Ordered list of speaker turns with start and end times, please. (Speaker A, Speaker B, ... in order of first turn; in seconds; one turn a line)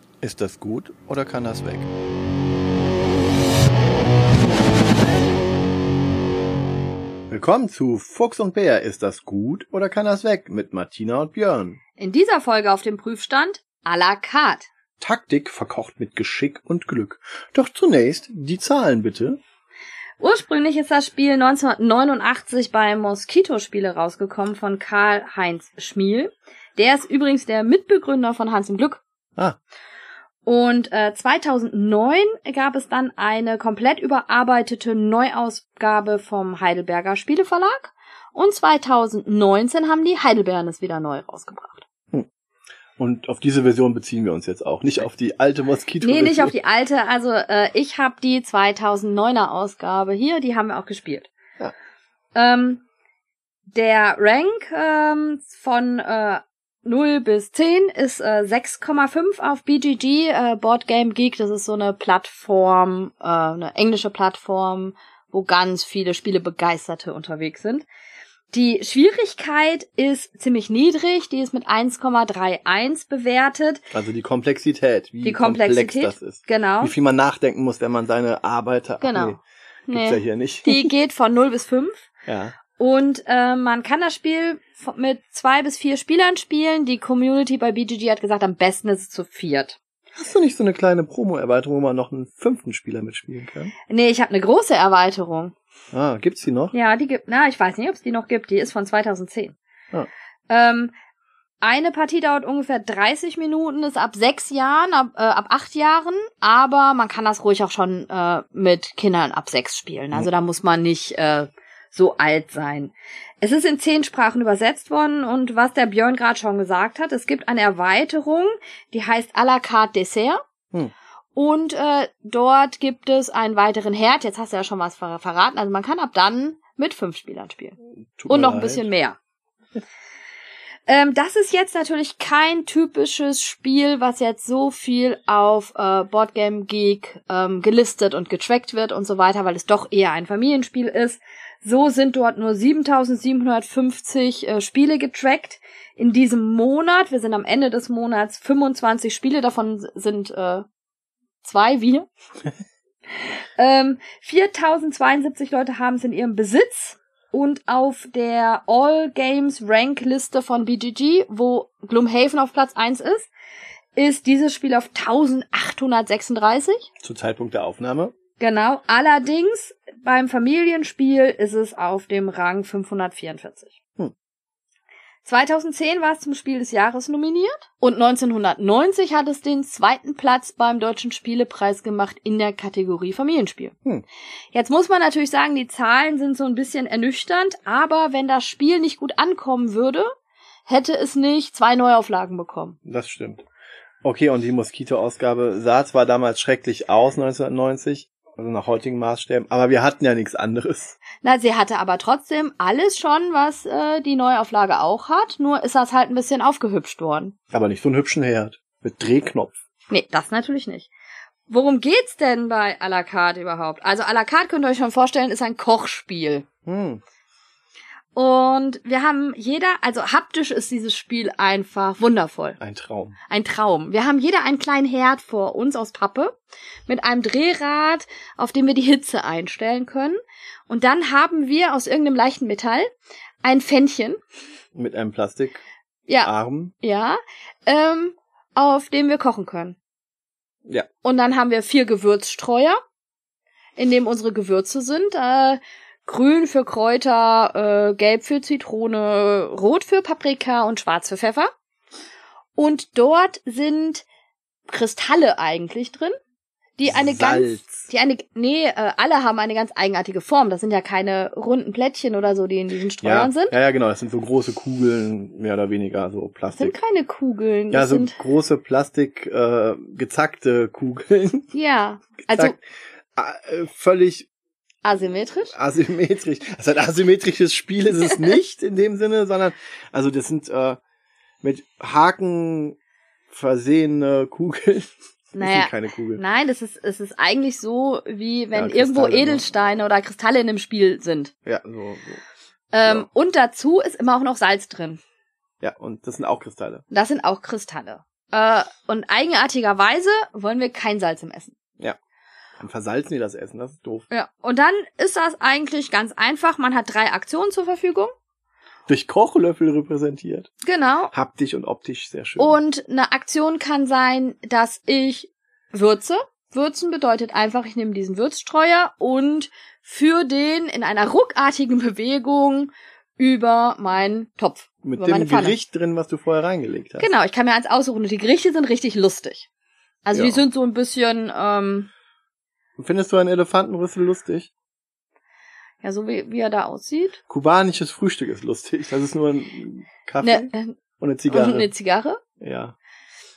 Speaker A: 0.2-1.9
Speaker A: 7.3-11.8
Speaker B: 12.0-14.7
Speaker A: 15.0-19.4
Speaker B: 20.2-29.0
Speaker B: 30.5-41.8
Speaker A: 43.0-46.5
Speaker B: 46.0-51.3
Speaker B: 52.4-52.8
Speaker B: 53.7-67.9
Speaker B: 68.5-73.8
Speaker A: 73.9-79.4
Speaker B: 75.2-76.9
Speaker B: 79.0-82.1
Speaker A: 79.9-80.9
Speaker A: 82.3-82.6
Speaker B: 82.8-89.8
Speaker A: 90.2-93.7
Speaker B: 93.9-95.5
Speaker A: 95.9-96.8
Speaker B: 96.7-99.6
Speaker B: 100.5-100.9
Speaker B: 101.6-120.4
Speaker B: 121.4-127.8
Speaker A: 128.2-128.9
Speaker B: 128.3-129.2
Speaker B: 130.9-150.7
Speaker B: 151.4-152.1
Speaker B: 153.6-163.3
Speaker B: 164.0-166.9
Speaker A: 167.0-168.1
Speaker B: 168.4-173.7
Speaker B: 175.2-183.8
Speaker B: 184.5-190.1
Speaker B: 190.7-192.8
Speaker A: 192.8-193.4
Speaker A: 194.0-201.0
Speaker B: 201.2-207.3
Speaker A: 207.5-209.6
Speaker B: 209.9-210.9
Speaker B: 211.5-216.5
Speaker A: 216.7-217.0
Speaker B: 218.2-222.6
Speaker A: 222.6-223.2
Speaker B: 223.3-230.2
Speaker B: 230.7-232.9
Speaker B: 233.4-234.2
Speaker A: 234.8-235.6
Speaker B: 236.1-239.8
Speaker A: 236.2-236.7
Speaker B: 241.0-242.8
Speaker B: 243.8-251.5
Speaker B: 252.6-254.1
Speaker B: 254.7-256.1
Speaker B: 256.8-263.5
Speaker A: 256.9-257.8
Speaker A: 263.0-266.8
Speaker B: 266.5-268.2
Speaker A: 267.7-271.5
Speaker B: 271.5-272.6
Speaker A: 272.3-272.6
Speaker A: 273.1-274.3
Speaker B: 274.8-275.5
Speaker A: 275.5-280.8
Speaker A: 281.4-282.8
Speaker A: 283.3-286.2
Speaker B: 285.4-291.3
Speaker A: 288.5-289.5
Speaker A: 291.5-292.2
Speaker B: 292.7-295.0
Speaker A: 295.6-296.8
Speaker B: 296.9-301.5
Speaker A: 302.6-304.1
Speaker B: 304.1-308.1
Speaker A: 308.9-310.5
Speaker B: 310.6-311.1
Speaker A: 311.1-312.6
Speaker B: 312.4-325.6
Speaker A: 324.8-327.1
Speaker B: 327.0-329.5
Speaker B: 330.1-331.9
Speaker A: 330.1-330.4
Speaker A: 332.8-334.5
Speaker B: 335.8-337.2
Speaker A: 337.3-341.7
Speaker B: 340.2-340.8
Speaker B: 341.3-342.2
Speaker A: 342.4-342.8